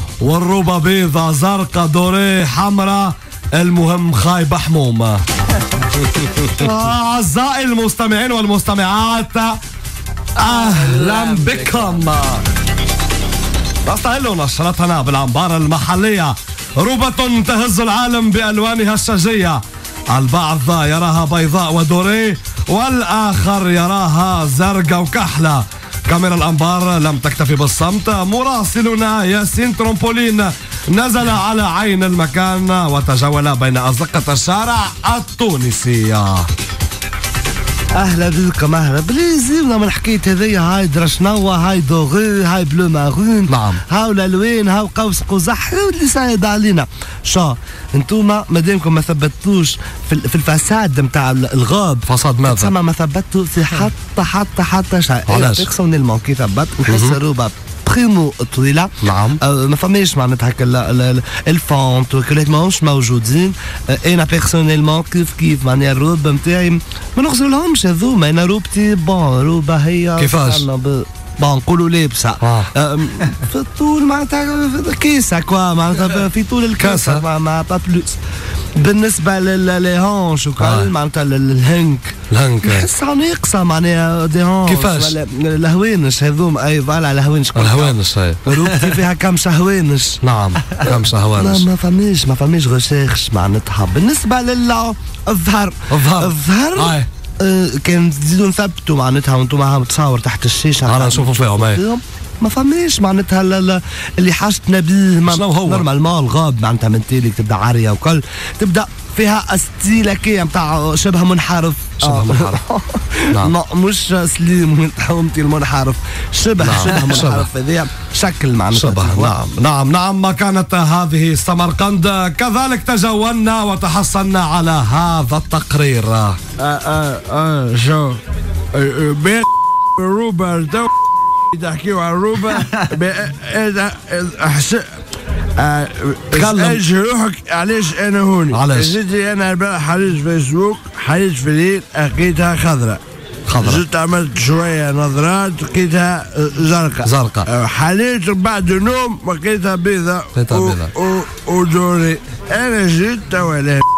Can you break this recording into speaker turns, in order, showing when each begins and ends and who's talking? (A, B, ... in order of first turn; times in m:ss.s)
0:00.2-0:05.2 A
0:06.3-0:09.6 A
0:10.4-0:12.4 A
0:13.8-0:36.5 A
0:38.0-1:18.2 B
0:43.5-0:43.8 A
0:52.1-0:52.7 A
0:55.3-0:55.7 A
0:56.9-0:57.2 A
0:59.0-0:59.4 A
1:10.2-1:10.7 A
1:12.4-1:12.7 A
1:16.8-1:17.2 A
1:18.8-1:59.5 B
1:20.6-1:20.9 A
1:22.3-1:22.9 A
1:24.7-1:25.2 A
1:27.6-1:29.0 A
1:30.2-1:31.7 A
1:35.9-1:37.1 A
1:40.9-1:41.8 A
1:45.3-1:45.9 A
1:52.0-1:52.6 A
1:56.6-1:57.5 A
1:58.7-2:06.4 A
2:06.6-2:08.2 C
2:08.7-2:10.9 C
2:11.5-2:15.0 C
2:15.6-2:23.0 C
2:16.3-2:16.8 A
2:18.5-2:19.0 A
2:23.5-2:23.8 A
2:23.6-2:33.8 C
2:27.0-2:27.5 A
2:30.3-2:31.0 A